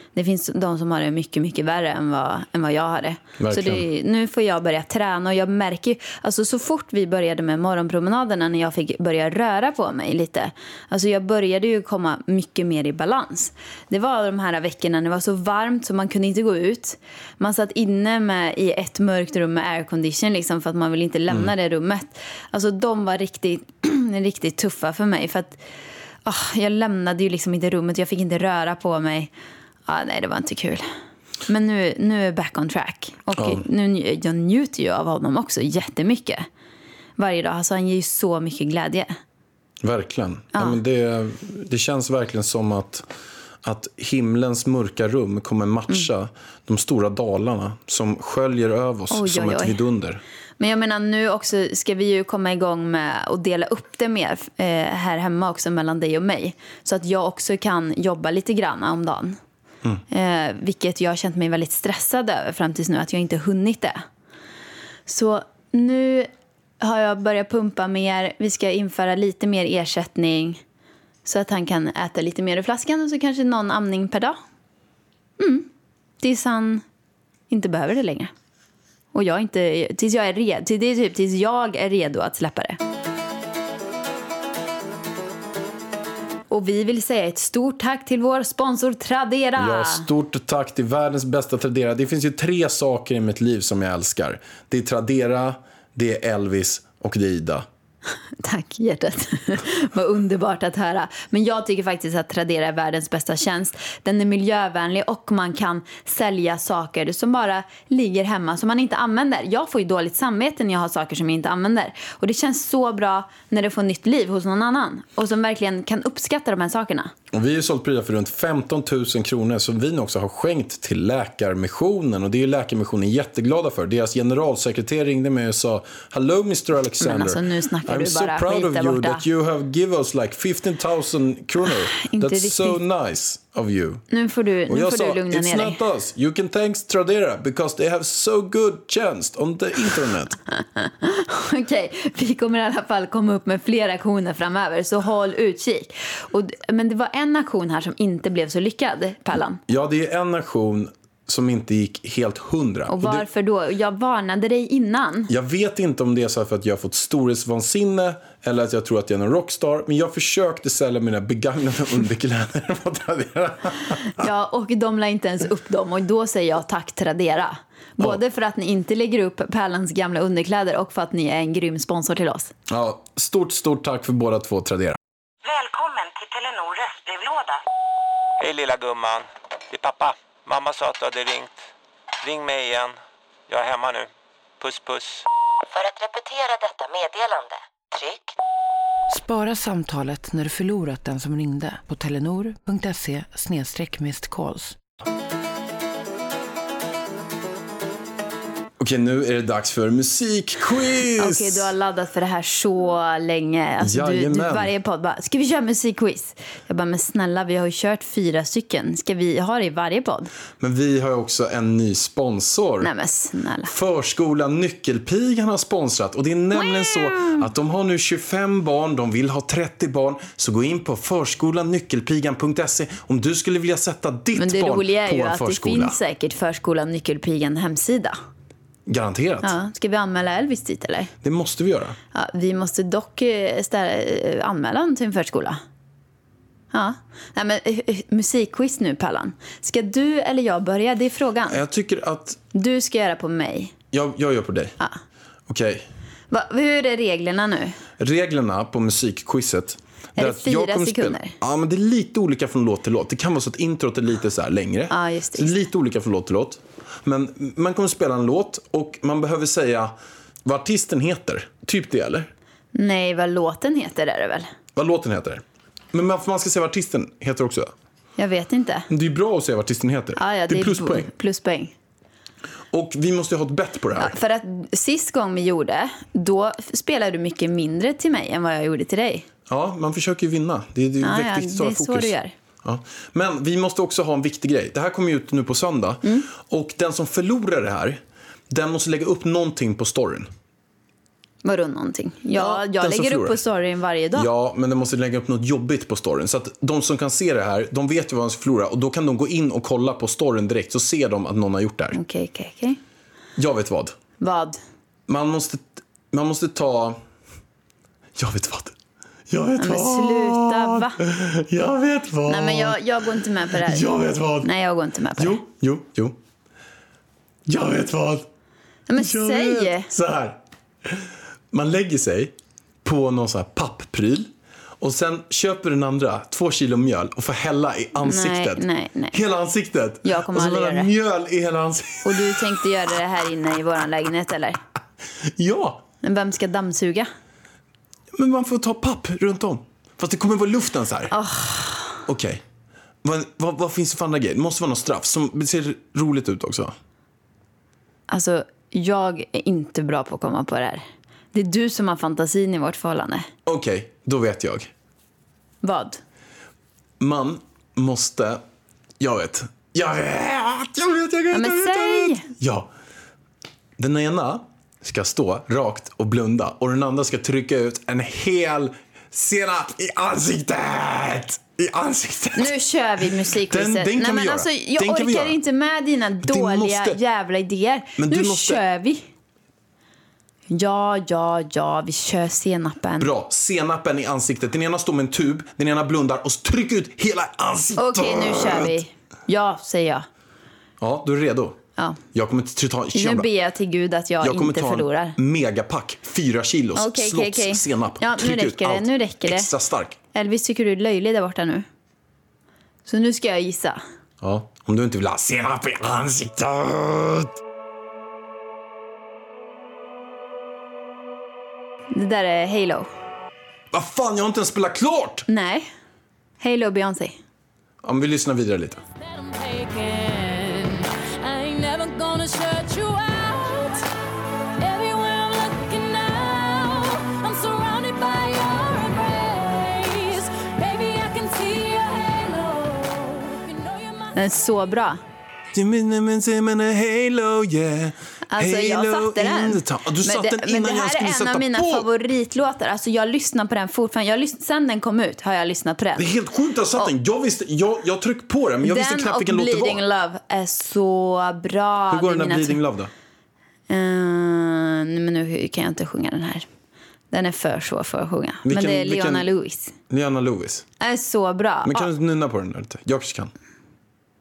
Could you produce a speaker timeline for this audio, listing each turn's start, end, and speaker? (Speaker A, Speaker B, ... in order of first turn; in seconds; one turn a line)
Speaker A: 0.1-25.6
Speaker B: 3.4-3.8
Speaker A: 26.2-29.3
Speaker A: 29.9-30.9
Speaker A: 31.4-36.5
Speaker B: 33.3-33.6
Speaker A: 37.2-39.1
Speaker B: 39.8-43.0
Speaker A: 40.5-40.8
Speaker B: 43.6-50.2
Speaker A: 49.1-49.8
Speaker A: 50.6-59.4
Speaker A: 60.1-64.0
Speaker A: 65.1-66.3
Speaker A: 66.8-70.6
Speaker A: 71.2-74.4
Speaker A: 75.4-75.7
Speaker A: 76.2-76.8
Speaker A: 77.5-78.3
Speaker A: 79.1-82.8
Speaker A: 86.5-90.1
Speaker B: 89.6-97.7
Speaker A: 98.4-117.1
Speaker B: 117.3-134.0
Speaker A: 127.0-129.2
Speaker A: 131.9-132.8
Speaker A: 134.1-135.8
Speaker B: 134.7-140.4
Speaker A: 140.8-149.6
Speaker B: 149.7-153.2
Speaker A: 152.9-155.3
Speaker B: 155.3-164.3
Speaker A: 164.2-172.5
Speaker B: 172.7-175.0
Speaker C: 175.4-177.6
Speaker D: 178.4-181.6
Speaker D: 182.2-183.0
Speaker D: 183.5-184.1
Speaker D: 184.6-185.2
Speaker C: 185.7-188.3
Speaker E: 189.1-194.8
Speaker B: 198.8-201.7
Speaker A: 201.2-210.3
Speaker B: 203.8-204.7
Speaker B: 210.6-212.9
Speaker A: 212.8-213.7
Speaker B: 213.7-226.0
Speaker A: 216.5-217.4
Speaker A: 224.3-228.2
Speaker B: 228.9-229.5
Speaker A: 229.4-231.1
Speaker B: 231.2-232.0
Speaker A: 232.1-235.6
Speaker A: 236.7-241.6
Speaker B: 241.5-242.4
Speaker A: 242.5-243.7
Speaker B: 243.9-244.7
Speaker B: 245.5-245.9
Speaker A: 246.3-247.8
Speaker B: 248.0-262.3
Speaker A: 250.2-251.3
Speaker A: 254.9-255.6
Speaker A: 262.7-264.5
Speaker B: 264.7-267.7
Speaker A: 268.2-268.9
Speaker B: 268.9-271.1
Speaker A: 270.1-271.7
Speaker B: 272.7-274.1
Speaker A: 274.0-279.2
Speaker B: 279.5-290.3
Speaker A: 281.0-282.3
Speaker A: 291.4-294.3
Speaker B: 292.3-293.4
Speaker B: 294.1-302.0
Speaker A: 301.9-302.8
Speaker B: 303.4-303.9
Speaker A: 304.2-304.6
Speaker B: 305.1-307.0
Speaker B: 308.2-308.8
Speaker B: 309.3-312.8
Speaker A: 309.6-311.0
Speaker A: 312.3-313.8
Speaker B: 313.5-314.5
Speaker A: 314.4-315.4
Speaker B: 315.1-316.2
Speaker B: 317.5-318.3
Speaker A: 318.9-319.9
Speaker B: 319.0-332.6
Speaker A: 328.0-329.2
Speaker A: 330.0-330.9
Speaker A: 332.0-334.6
Speaker B: 335.2-335.8
Speaker A: 336.0-337.1
Speaker B: 338.1-341.1
Speaker A: 341.1-342.0
Speaker B: 342.1-342.4
Speaker B: 343.0-346.7
Speaker A: 348.1-353.3
Speaker B: 353.4-354.7
Speaker A: 355.6-356.0
Speaker B: 357.0-358.4
Speaker B: 359.0-362.7
Speaker A: 361.3-362.2
Speaker B: 363.8-375.4
Speaker A: 372.4-379.1
Speaker B: 376.2-377.0
Speaker B: 378.0-378.6
Speaker A: 380.5-383.1
Speaker B: 383.0-388.8
Speaker A: 387.8-390.1
Speaker B: 390.8-391.6
Speaker B: 392.1-393.3
Speaker A: 392.9-395.2
Speaker B: 394.2-400.0
Speaker A: 396.7-399.5
Speaker A: 400.1-401.6
Speaker A: 402.9-403.8
Speaker B: 404.2-407.4
Speaker A: 411.9-412.9
Speaker B: 413.7-415.3
Speaker A: 415.3-415.7
Speaker A: 416.4-417.2
Speaker B: 417.8-418.8
Speaker F: 419.0-423.8
Speaker F: 424.6-434.3
Speaker A: 434.1-435.0
Speaker B: 435.5-441.9
Speaker A: 438.3-446.1
Speaker B: 445.9-449.8
Speaker A: 448.6-452.6
Speaker B: 451.9-452.9
Speaker A: 453.7-456.4
Speaker A: 457.1-459.7
Speaker B: 458.4-459.3
Speaker B: 459.9-460.6
Speaker A: 460.8-461.9
Speaker B: 461.6-463.3